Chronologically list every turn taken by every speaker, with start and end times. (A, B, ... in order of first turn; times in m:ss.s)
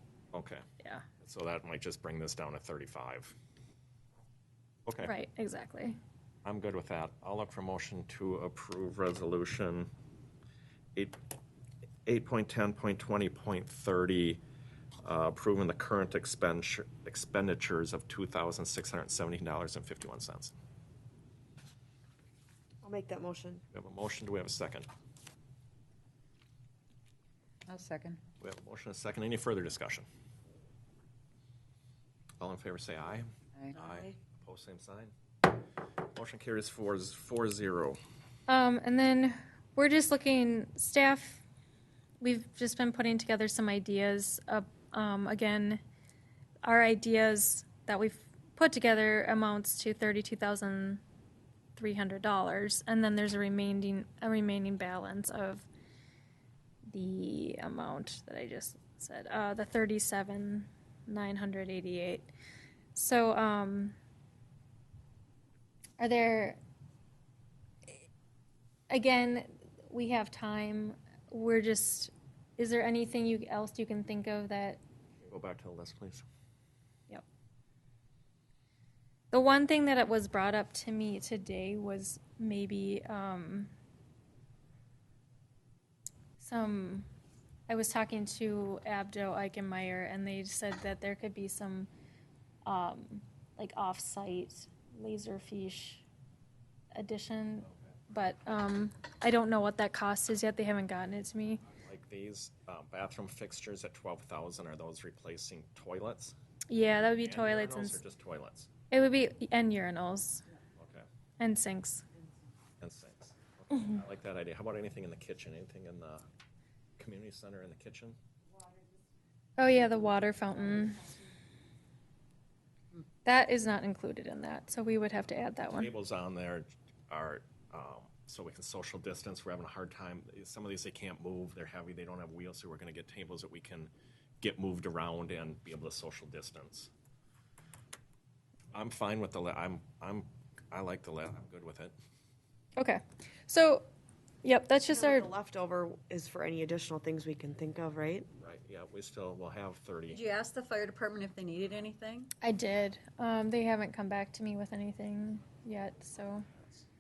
0:00.3-0:00.6 A
0:01.2-0:03.3 A
0:04.9-0:05.1 A
0:05.0-0:06.0 B
0:06.4-0:09.9 A
0:12.1-0:14.4 A
0:15.0-0:20.5 A
0:22.8-0:23.6 C
0:23.7-0:24.9 A
0:27.7-0:28.2 D
0:28.4-0:30.0 A
0:32.4-0:38.0 A
0:33.6-0:33.9 D
0:38.5-0:41.4 B
0:42.2-0:45.8 B
0:46.6-0:51.0 B
0:51.8-0:55.7 B
0:56.9-1:02.3 B
1:03.0-1:04.0 B
1:06.0-1:06.6 B
1:08.9-1:14.8 B
1:15.3-1:16.2 A
1:19.3-1:23.7 B
1:26.4-1:27.1 B
1:27.7-1:31.9 B
1:32.7-1:36.0 B
1:36.9-1:41.6 B
1:41.7-1:46.3 A
1:46.7-1:48.0 B
1:47.2-1:48.7 A
1:48.9-1:50.4 B
1:50.8-1:51.1 A
1:51.4-1:52.0 B
1:52.8-1:56.2 A
1:57.0-1:58.2 A
1:59.6-2:01.2 B
2:03.2-2:05.9 B
2:05.7-2:16.9 A
2:18.7-2:22.0 A
2:22.8-2:23.9 B
2:24.4-2:25.3 B
2:24.9-2:28.3 C
2:28.4-2:30.2 A
2:30.1-2:32.3 D
2:32.4-2:36.5 B